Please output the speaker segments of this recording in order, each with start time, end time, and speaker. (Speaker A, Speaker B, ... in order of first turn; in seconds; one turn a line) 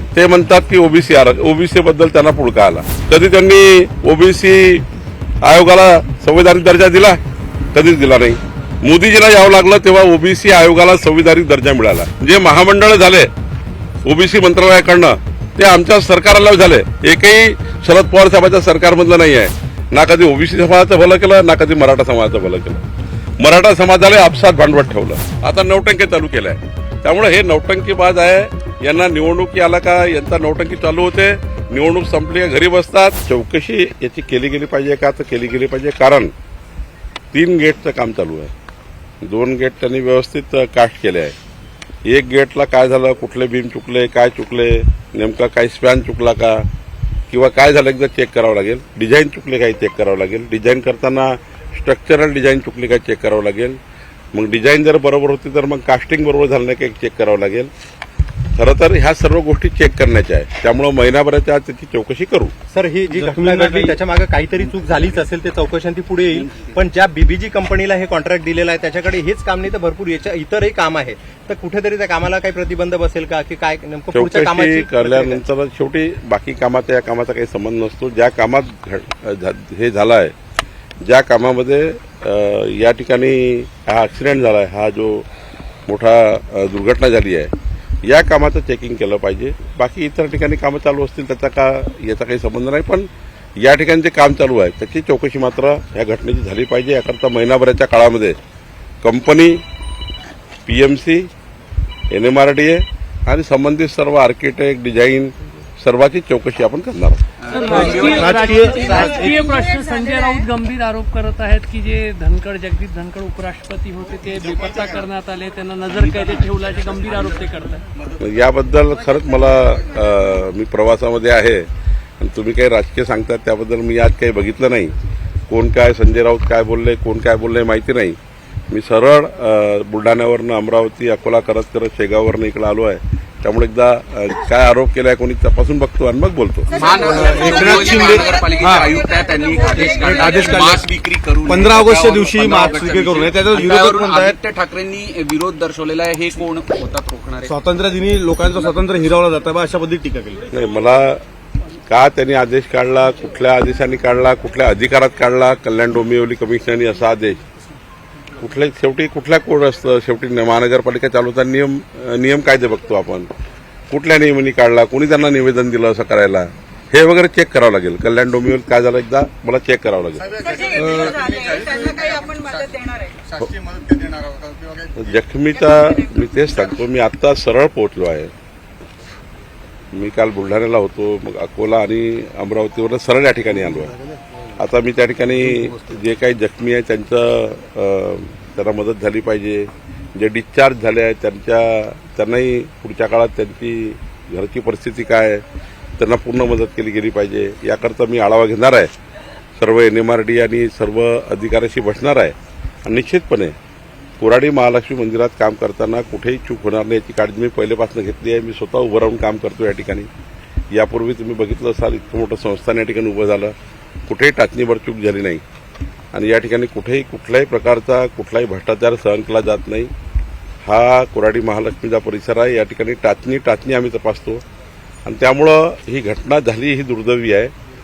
Speaker A: 0.1-4.8
Speaker A: 5.4-7.2
Speaker A: 7.7-13.3
Speaker A: 14.1-22.8
Speaker A: 23.4-36.3
Speaker A: 37.3-38.5
Speaker A: 39.2-41.4
Speaker A: 42.0-46.7
Speaker A: 47.3-53.8
Speaker A: 54.3-57.7
Speaker A: 58.5-62.5
Speaker B: 62.7-75.4
Speaker C: 63.1-64.0
Speaker A: 74.1-80.3
Speaker A: 81.0-85.2
Speaker A: 85.9-87.5
Speaker A: 88.0-98.4
Speaker A: 99.0-99.6
Speaker A: 100.7-101.3
Speaker A: 102.1-107.2
Speaker D: 107.5-109.2
Speaker E: 107.5-117.8
Speaker C: 107.7-109.4
Speaker A: 118.2-121.7
Speaker A: 122.2-124.9
Speaker A: 125.5-128.2
Speaker A: 128.7-136.7
Speaker D: 136.7-147.5
Speaker F: 136.8-138.1
Speaker C: 137.0-139.0
Speaker F: 139.6-140.4
Speaker C: 139.7-140.9
Speaker C: 141.4-144.4
Speaker C: 147.4-150.5
Speaker A: 150.5-151.2
Speaker A: 151.9-157.4
Speaker A: 158.4-163.3
Speaker A: 163.9-170.4
Speaker F: 170.4-173.2
Speaker A: 174.9-178.3
Speaker A: 179.9-184.0
Speaker A: 184.6-195.4
Speaker A: 196.0-198.9
Speaker A: 199.6-203.5
Speaker A: 204.2-210.1
Speaker A: 210.7-213.5
Speaker A: 214.1-215.4
Speaker A: 216.1-219.9
Speaker A: 220.7-224.4
Speaker A: 225.1-227.5